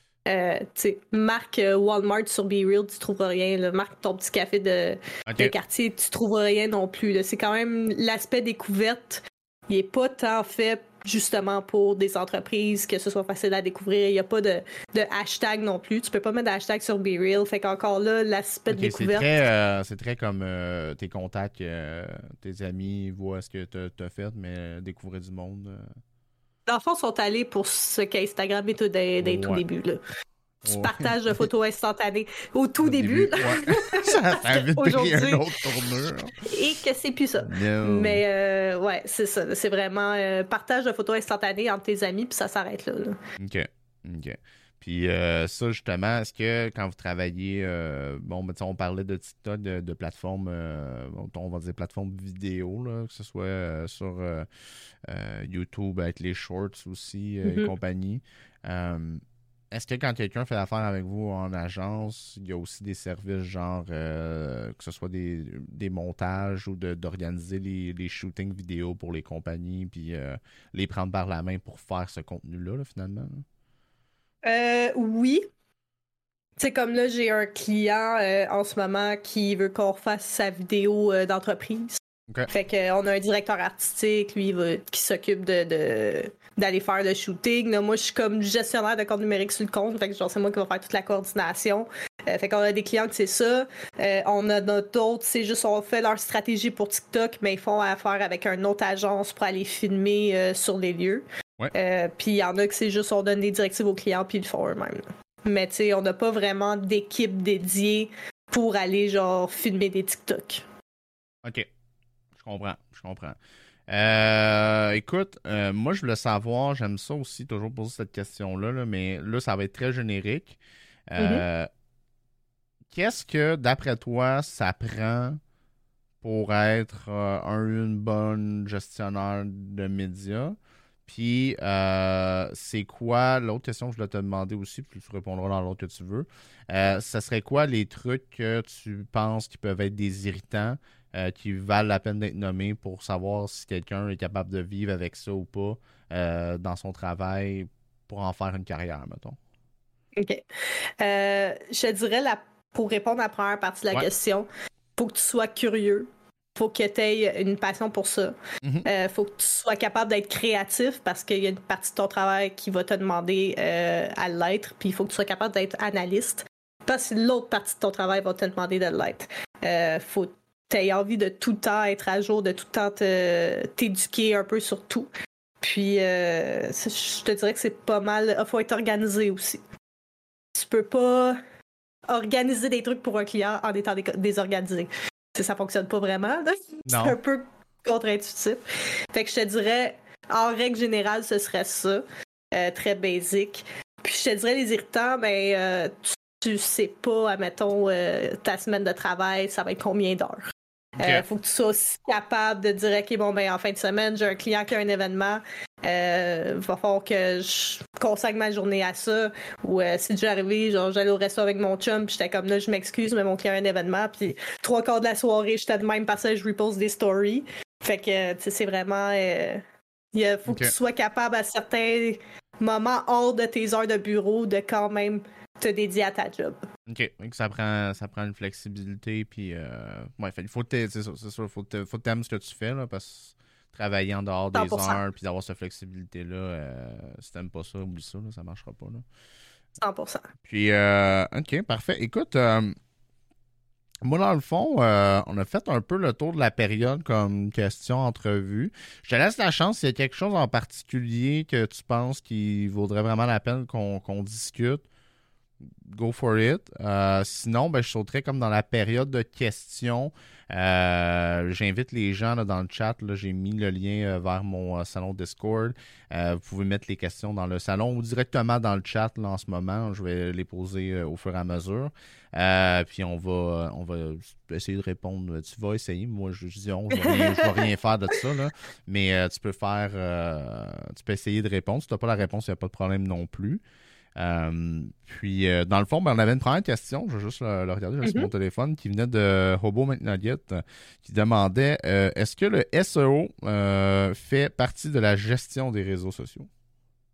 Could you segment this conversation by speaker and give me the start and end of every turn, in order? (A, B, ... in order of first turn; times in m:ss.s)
0:00.2-0:19.3 A
0:05.3-0:05.5 B
0:18.7-0:25.9 B
0:26.7-0:30.0 A
0:29.2-0:29.6 B
0:30.6-0:31.1 B
0:30.6-0:35.6 A
0:32.8-0:36.4 B
0:36.4-0:43.2 A
0:37.4-0:38.2 B
0:43.4-0:54.5 B
0:55.0-0:59.2 B
0:57.4-0:57.7 A
0:59.7-1:13.4 B
1:14.4-1:15.4 A
1:16.6-1:50.6 A
1:51.4-1:51.7 B
1:52.4-1:53.4 B
1:53.9-2:00.6 B
2:01.1-2:01.7 B
2:01.2-2:01.4 A
2:02.9-2:05.4 B
2:06.2-2:29.4 B
2:30.2-2:30.4 A
2:31.0-2:55.1 A
2:38.6-2:38.9 B
2:55.6-2:59.6 A
3:00.5-3:01.4 A
3:02.1-3:46.6 A
3:06.8-3:07.2 B
3:40.5-3:40.7 B
3:46.9-3:59.0 B
3:54.5-3:55.0 A
3:59.8-4:00.3 A
4:00.4-4:02.8 B
4:04.0-4:14.8 B
4:15.7-4:43.6 B
4:37.0-4:37.5 A
4:44.2-4:56.5 B